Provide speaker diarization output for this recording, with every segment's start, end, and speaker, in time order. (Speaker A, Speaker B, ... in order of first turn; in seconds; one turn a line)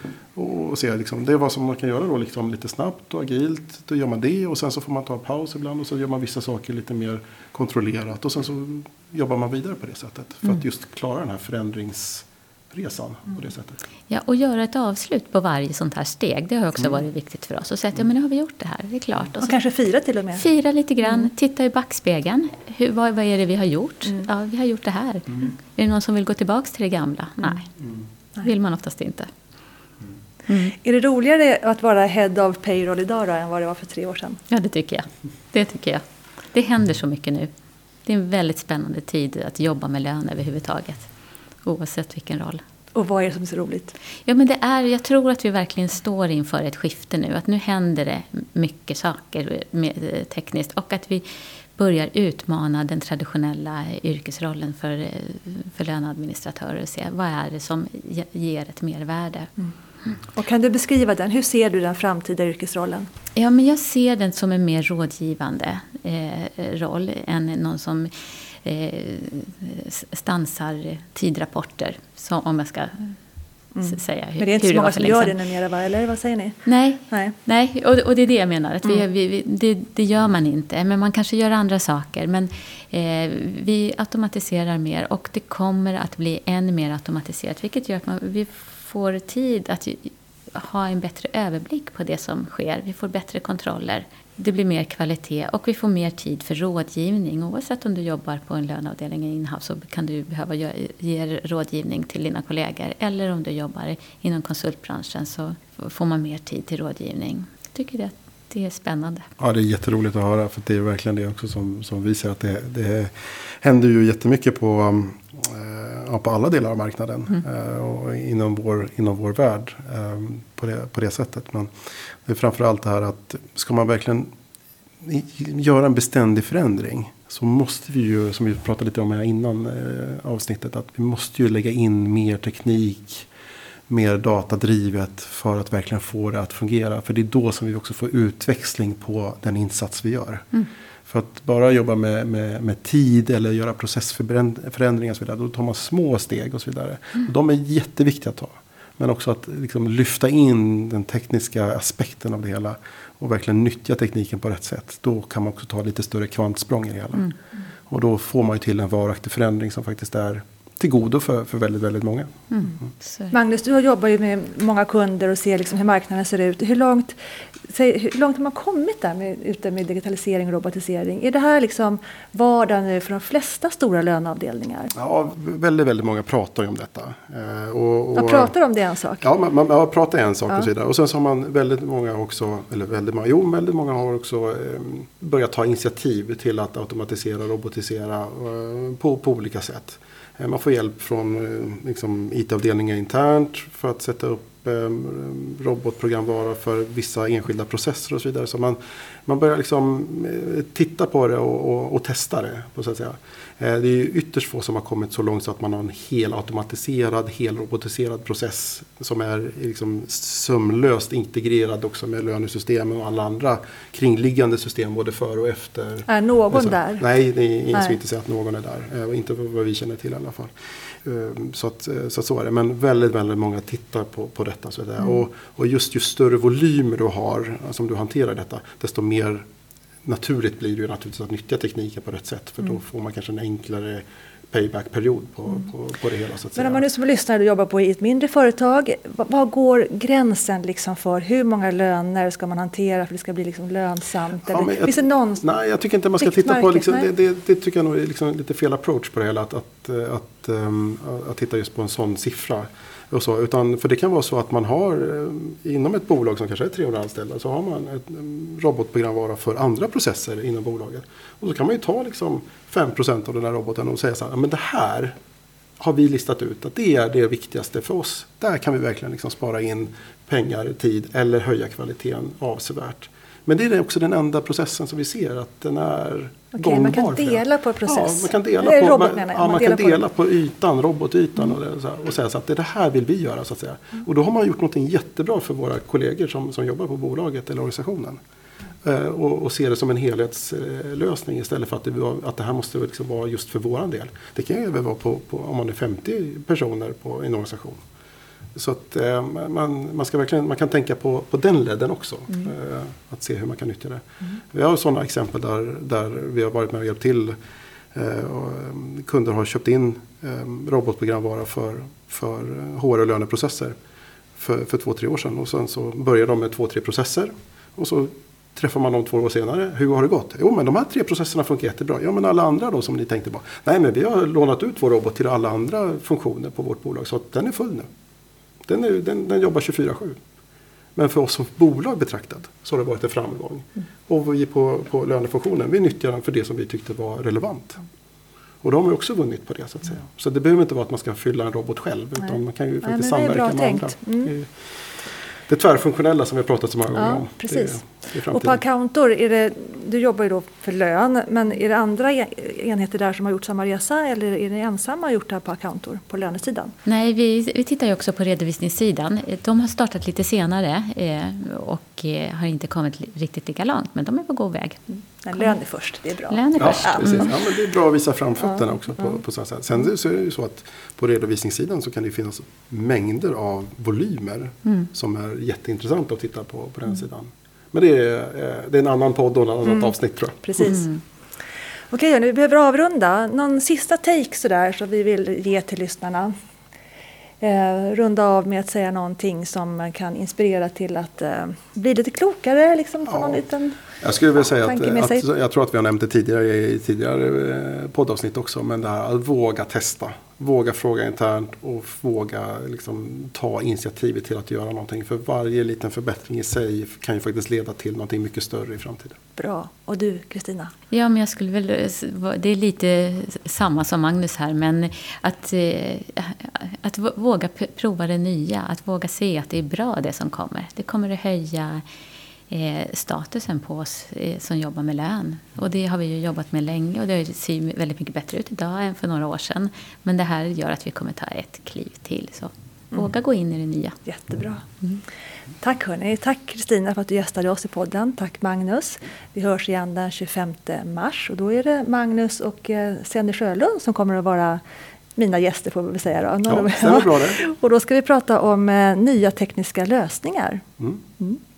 Speaker A: 0.3-13.8
Speaker B: 14.1-19.6
Speaker C: 19.4-20.4
Speaker B: 20.4-27.7
Speaker B: 28.4-29.3
Speaker B: 30.5-30.8
Speaker C: 30.8-34.4
Speaker B: 34.5-37.5
Speaker B: 38.1-41.1
Speaker B: 41.6-42.6
Speaker C: 43.0-44.0
Speaker B: 44.3-51.2
Speaker B: 51.8-59.5
Speaker C: 59.6-63.1
Speaker B: 63.4-73.2
Speaker C: 73.8-76.6
Speaker B: 73.8-75.3
Speaker B: 76.7-109.3
Speaker C: 77.1-77.3
Speaker A: 109.4-121.7
Speaker A: 122.2-124.3
Speaker A: 125.0-133.3
Speaker A: 133.9-140.5
Speaker A: 141.1-157.3
Speaker A: 157.9-162.4
Speaker B: 162.5-163.3
Speaker C: 163.3-174.9
Speaker A: 174.9-178.5
Speaker C: 178.1-179.3
Speaker A: 179.2-229.5
Speaker C: 216.1-217.0
Speaker A: 230.0-236.8
Speaker C: 236.6-245.4
Speaker A: 244.5-265.2
Speaker C: 246.2-247.1
Speaker A: 265.8-288.2
Speaker C: 276.5-280.0
Speaker A: 288.8-297.8
Speaker A: 298.6-307.4
Speaker A: 307.9-313.8
Speaker A: 314.4-327.9
Speaker A: 328.6-330.2
Speaker A: 330.9-337.8
Speaker A: 338.6-348.6
Speaker C: 342.8-344.3
Speaker C: 347.0-356.7
Speaker B: 356.9-364.8
Speaker C: 365.2-367.3
Speaker B: 366.3-367.3
Speaker A: 366.6-380.4
Speaker C: 380.4-380.9
Speaker C: 381.9-386.3
Speaker C: 387.4-393.8
Speaker A: 394.0-409.2
Speaker C: 394.6-395.2
Speaker C: 409.4-410.7
Speaker B: 410.9-421.9
Speaker B: 422.5-434.0
Speaker C: 434.1-434.7
Speaker C: 435.6-444.6
Speaker C: 445.2-450.6
Speaker A: 446.5-447.4